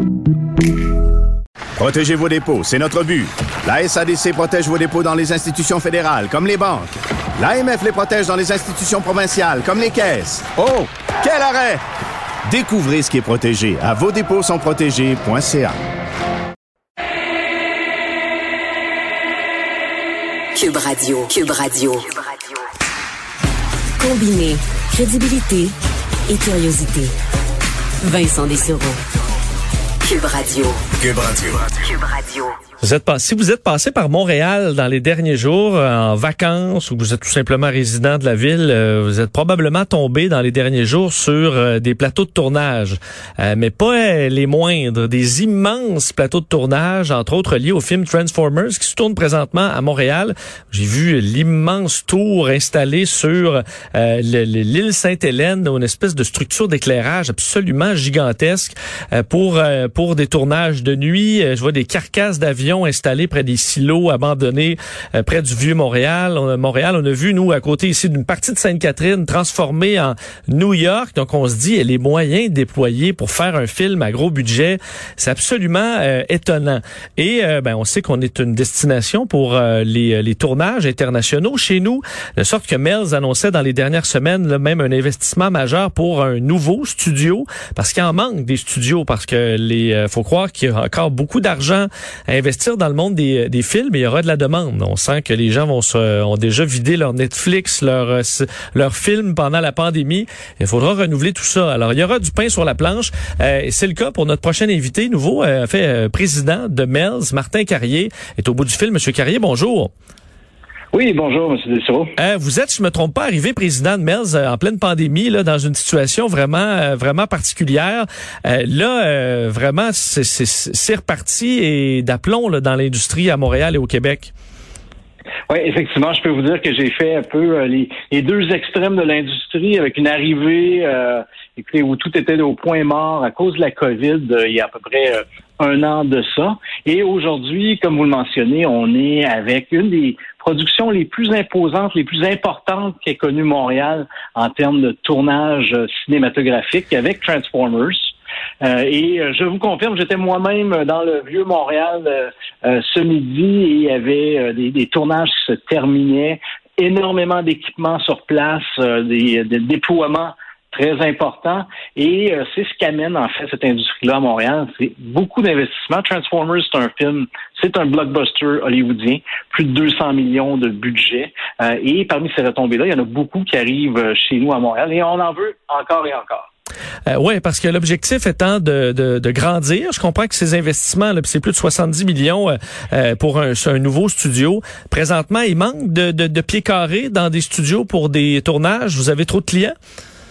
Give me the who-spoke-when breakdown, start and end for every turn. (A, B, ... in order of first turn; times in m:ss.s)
0:01.8-0:11.8 A
0:12.4-0:15.7 A
0:20.5-0:22.2 B
0:24.0-0:25.7 B
0:26.3-0:27.1 B
0:28.0-0:29.0 B
0:30.0-0:30.8 B
0:31.1-0:31.6 A
0:31.8-0:32.5 B
0:32.8-1:49.9 C
1:50.9-1:52.1 D
1:52.2-2:04.3 C
2:05.5-2:56.5 D
2:57.1-3:09.7 C